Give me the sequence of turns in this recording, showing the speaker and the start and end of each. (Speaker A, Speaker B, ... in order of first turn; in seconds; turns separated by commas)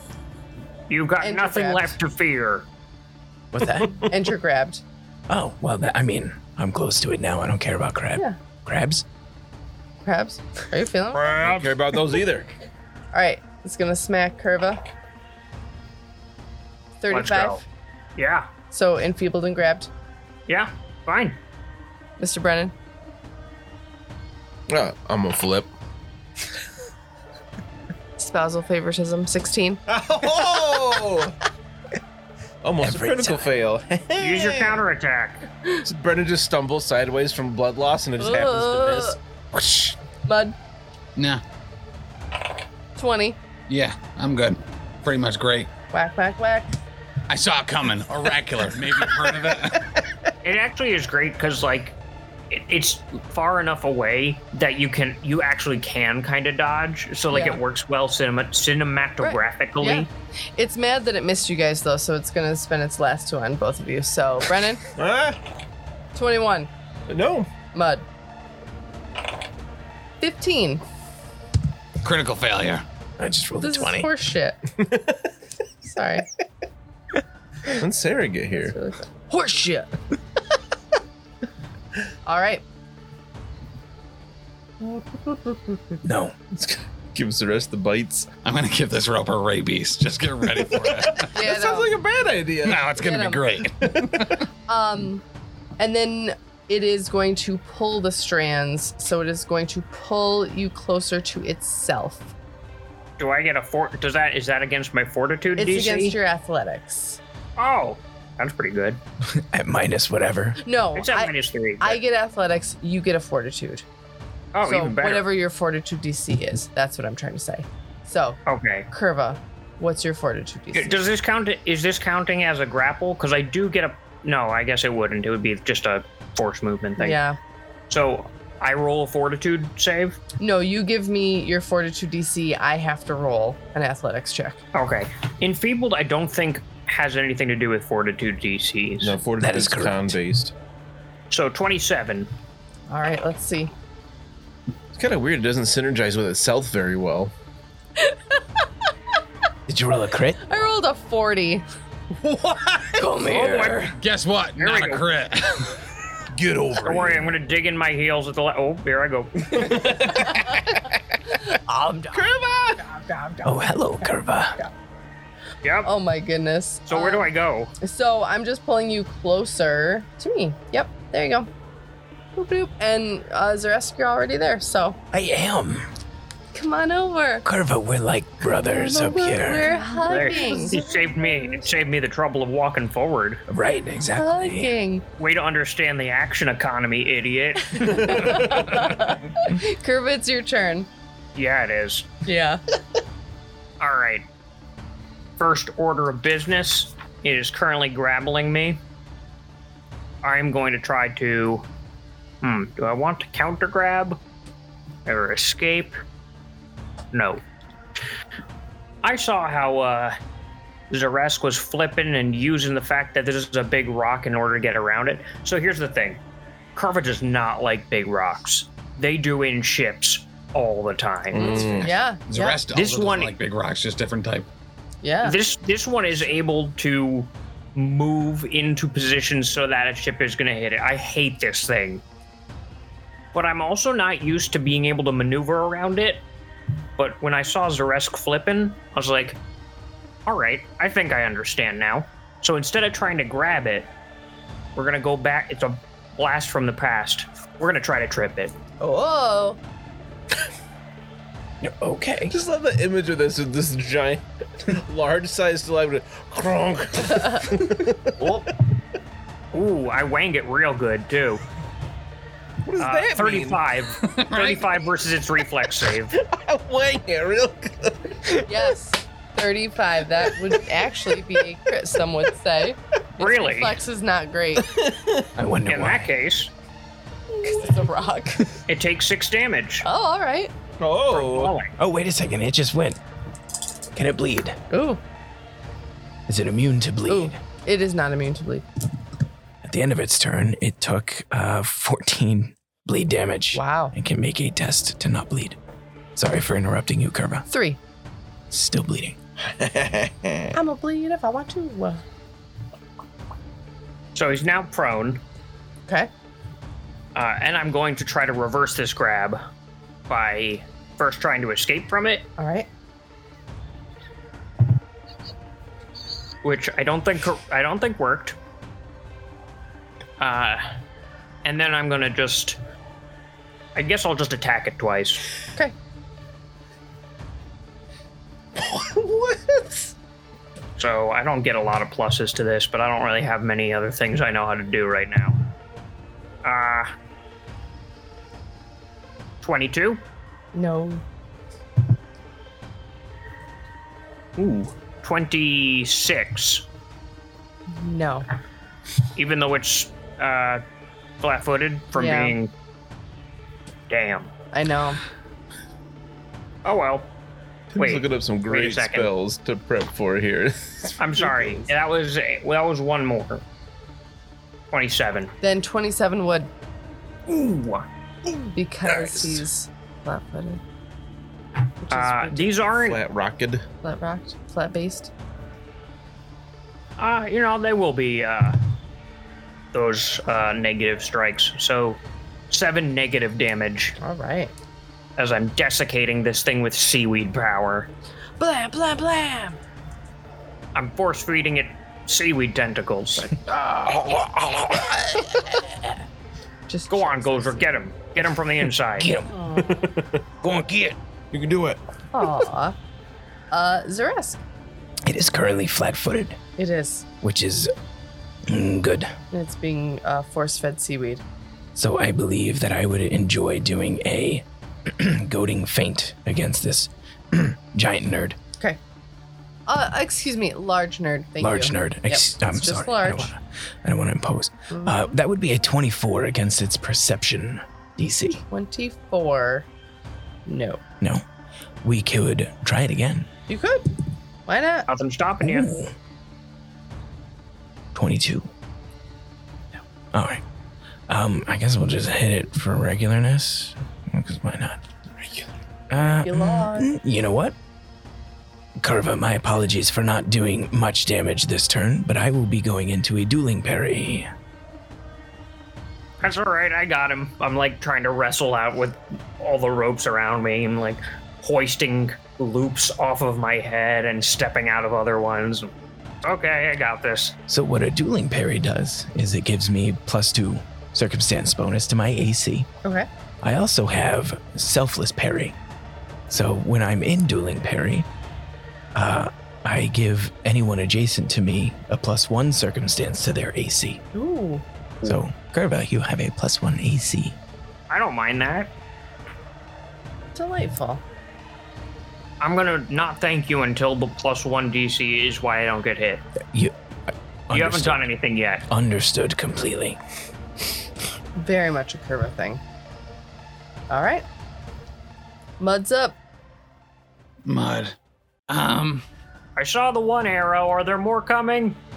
Speaker A: 0.9-2.7, Speaker B: 1.2-1.9, Speaker C: 3.5-4.0, Speaker B: 4.0-4.8, Speaker C: 5.3-9.1, Speaker B: 10.0-11.4, Speaker A: 11.2-11.7, Speaker D: 11.4-12.5, Speaker B: 13.1-14.8, Speaker B: 17.0-17.6, Speaker A: 17.1-17.6, Speaker A: 18.2-18.5, Speaker B: 18.7-19.9, Speaker A: 20.5-21.4, Speaker B: 22.2-22.7, Speaker D: 24.7-25.7, Speaker B: 28.2-29.8, Speaker D: 29.9-31.4, Speaker D: 32.6-34.8, Speaker C: 32.8-33.5, Speaker A: 34.2-35.5, Speaker D: 35.9-39.9, Speaker B: 38.2-39.2, Speaker B: 40.2-40.6, Speaker E: 41.2-41.4, Speaker B: 43.0-43.4, Speaker E: 43.7-45.7, Speaker B: 45.9-46.7, Speaker E: 47.3-49.9, Speaker A: 50.4-52.0, Speaker A: 52.5-60.1, Speaker B: 57.3-57.6, Speaker B: 59.2-64.8, Speaker D: 64.9-65.4, Speaker B: 66.2-66.7, Speaker D: 67.1-67.5, Speaker B: 67.7-68.0, Speaker B: 70.2-70.8, Speaker E: 72.0-72.8, Speaker C: 73.2-74.1, Speaker B: 73.6-74.6, Speaker B: 75.8-76.3, Speaker D: 77.7-78.8, Speaker B: 78.6-79.9, Speaker B: 82.2-82.6, Speaker B: 84.8-85.8, Speaker C: 86.0-86.3, Speaker D: 86.5-88.3, Speaker E: 88.4-91.3, Speaker D: 90.8-92.9, Speaker B: 91.3-92.0, Speaker E: 92.6-94.5, Speaker B: 93.0-93.5, Speaker D: 93.8-94.4, Speaker B: 94.7-95.2, Speaker B: 95.8-102.3, Speaker A: 103.2-106.2, Speaker B: 105.6-107.2, Speaker A: 107.6-109.0, Speaker C: 109.3-110.6, Speaker B: 110.6-113.9, Speaker A: 111.0-112.0, Speaker A: 114.5-115.3, Speaker B: 114.6-118.4, Speaker A: 118.5-118.9, Speaker B: 118.9-121.1, Speaker A: 120.7-127.2, Speaker B: 127.0-127.4, Speaker A: 127.9-130.2, Speaker B: 130.4-134.6, Speaker A: 134.7-139.2, Speaker D: 139.0-140.5, Speaker C: 139.4-140.2, Speaker A: 141.3-142.3, Speaker B: 142.9-143.7, Speaker D: 144.9-147.3, Speaker B: 148.0-148.4, Speaker C: 149.7-150.4, Speaker B: 150.4-151.7, Speaker D: 152.1-153.1, Speaker C: 153.0-153.9, Speaker A: 153.2-153.9, Speaker E: 153.7-155.9, Speaker A: 154.6-155.1, Speaker D: 156.3-157.4, Speaker A: 156.8-159.9, Speaker D: 159.5-160.9, Speaker B: 160.3-160.6, Speaker B: 161.4-164.1, Speaker D: 162.1-162.8, Speaker C: 163.4-164.6, Speaker A: 165.6-165.9, Speaker B: 165.8-171.5, Speaker A: 166.9-167.8, Speaker B: 172.4-175.0, Speaker C: 175.1-175.9, Speaker B: 176.5-177.5, Speaker C: 177.4-179.7, Speaker B: 178.7-181.6, Speaker A: 180.0-183.4, Speaker C: 183.5-184.8, Speaker B: 184.2-185.1, Speaker A: 185.2-189.1, Speaker B: 187.8-190.9, Speaker A: 191.3-192.1, Speaker B: 192.2-192.6, Speaker A: 193.8-194.2, Speaker A: 195.4-198.8, Speaker A: 200.2-201.7, Speaker A: 202.4-204.2, Speaker A: 205.1-206.0, Speaker A: 207.1-207.4, Speaker A: 209.0-210.2, Speaker A: 210.9-216.2, Speaker A: 216.8-221.9, Speaker D: 221.3-221.9, Speaker B: 221.3-222.6, Speaker E: 221.8-224.5, Speaker A: 222.7-223.3, Speaker B: 225.0-225.4, Speaker A: 225.2-232.0, Speaker A: 233.3-236.2, Speaker A: 237.0-239.4, Speaker A: 240.3-243.9, Speaker A: 244.8-248.5, Speaker B: 248.8-249.6, Speaker C: 251.6-252.3, Speaker D: 252.3-258.5, Speaker A: 259.5-261.4, Speaker D: 262.7-263.6, Speaker A: 262.8-266.1, Speaker E: 264.0-264.8, Speaker D: 266.1-268.6, Speaker B: 268.4-274.7, Speaker A: 273.2-273.8, Speaker D: 274.6-275.3, Speaker C: 275.4-276.1, Speaker A: 275.7-276.5, Speaker B: 277.3-278.5, Speaker A: 278.7-279.9, Speaker B: 279.8-280.5, Speaker D: 280.8-281.6, Speaker A: 281.1-281.8, Speaker C: 281.8-283.0, Speaker C: 283.9-284.6, Speaker B: 284.7-285.0, Speaker C: 286.3-287.4, Speaker B: 287.1-288.7, Speaker C: 289.6-295.6, Speaker B: 293.5-293.9, Speaker C: 296.2-297.5, Speaker B: 297.5-297.8, Speaker C: 298.5-299.2, Speaker D: 299.6-300.5, Speaker B: 300.5-302.0, Speaker A: 304.1-305.2, Speaker A: 307.1-309.4, Speaker A: 310.1-312.3, Speaker B: 312.4-312.7, Speaker A: 316.4-318.4, Speaker A: 320.2-320.6, Speaker A: 321.4-322.6, Speaker A: 323.8-325.2, Speaker D: 328.6-329.9, Speaker A: 330.8-335.4, Speaker A: 336.4-336.9, Speaker A: 339.4-340.0, Speaker B: 340.5-341.0, Speaker A: 344.4-346.7, Speaker B: 347.7-348.3, Speaker A: 349.1-350.6, Speaker A: 351.2-352.5, Speaker B: 351.9-352.4, Speaker A: 353.9-354.3, Speaker B: 354.5-355.0, Speaker A: 356.6-357.1, Speaker D: 357.7-361.5, Speaker A: 357.8-359.1, Speaker A: 361.0-363.4, Speaker A: 364.7-365.3, Speaker B: 365.4-366.5, Speaker A: 367.3-367.9, Speaker B: 368.4-370.6, Speaker D: 368.9-369.4, Speaker B: 371.8-372.7, Speaker A: 371.9-373.0, Speaker D: 372.7-373.6, Speaker B: 373.8-375.1, Speaker A: 377.0-378.6, Speaker A: 379.7-384.0, Speaker B: 384.0-384.5, Speaker A: 385.2-387.9, Speaker B: 388.4-389.6, Speaker A: 390.7-393.4, Speaker D: 393.9-394.9, Speaker B: 396.7-397.7, Speaker A: 396.9-399.1, Speaker C: 399.0-399.4, Speaker B: 399.3-399.9, Speaker D: 399.6-400.2, Speaker C: 400.4-401.0, Speaker D: 401.3-401.8, Speaker B: 402.1-402.8, Speaker B: 403.5-404.4, Speaker C: 405.1-406.4, Speaker B: 406.6-407.1, Speaker C: 407.2-407.7, Speaker C: 408.5-409.1, Speaker B: 409.3-411.2, Speaker C: 411.8-418.4, Speaker B: 419.7-423.3, Speaker C: 421.4-428.4, Speaker B: 424.7-425.1, Speaker B: 428.3-429.7, Speaker B: 430.5-430.8, Speaker C: 431.8-433.3, Speaker B: 433.5-434.0, Speaker B: 434.5-434.9, Speaker A: 434.9-435.7, Speaker C: 435.4-435.9, Speaker C: 437.9-438.5, Speaker C: 440.1-440.4, Speaker C: 441.1-444.8, Speaker C: 445.9-447.6, Speaker B: 446.0-446.9, Speaker C: 448.8-454.3, Speaker A: 456.2-465.7, Speaker A: 466.2-467.4, Speaker C: 467.5-472.7, Speaker C: 473.4-475.6, Speaker C: 476.3-478.1, Speaker C: 478.9-484.0, Speaker B: 484.1-484.6, Speaker C: 485.0-487.4, Speaker A: 487.9-488.7, Speaker B: 490.4-491.0, Speaker A: 492.4-496.2, Speaker C: 497.5-498.1, Speaker A: 497.5-498.6, Speaker C: 498.7-500.0, Speaker B: 501.4-502.6, Speaker B: 503.9-504.2, Speaker B: 505.6-506.2, Speaker E: 507.5-507.9, Speaker E: 508.5-509.0, Speaker A: 509.6-511.8